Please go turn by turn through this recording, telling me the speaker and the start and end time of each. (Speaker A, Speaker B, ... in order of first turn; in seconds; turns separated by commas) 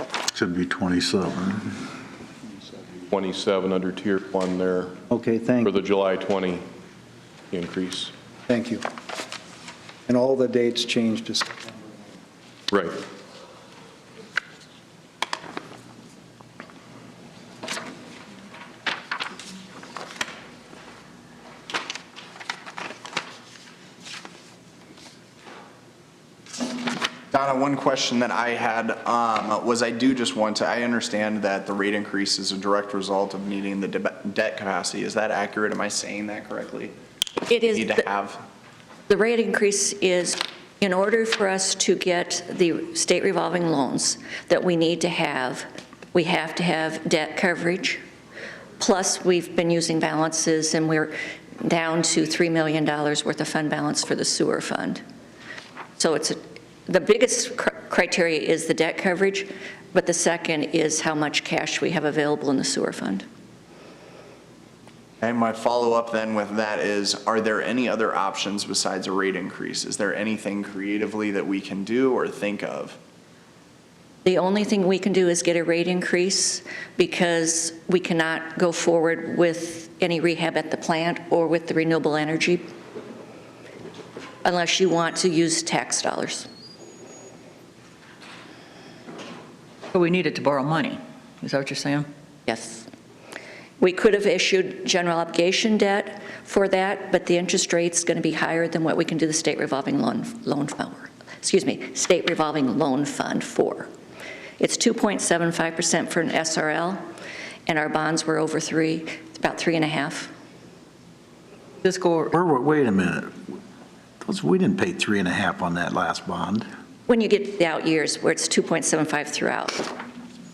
Speaker A: 0.3-1.8, Speaker B: 3.1-5.0, Speaker C: 5.1-5.7, Speaker B: 5.6-6.6, Speaker B: 7.5-8.1, Speaker C: 8.5-8.8, Speaker C: 10.1-11.7, Speaker B: 12.7-13.0, Speaker D: 27.3-36.9, Speaker E: 37.5-38.0, Speaker D: 37.7-38.4, Speaker E: 39.1-48.0, Speaker E: 48.8-55.0, Speaker E: 56.0-63.2, Speaker D: 65.2-73.0, Speaker E: 74.2-82.7, Speaker E: 84.4-86.5, Speaker F: 89.9-92.1, Speaker E: 92.5-92.9, Speaker E: 93.8-103.9, Speaker E: 104.6-107.0, Speaker E: 107.7-110.3, Speaker F: 111.8-112.3, Speaker A: 112.3-113.3, Speaker A: 114.2-116.7, Speaker E: 117.1-119.9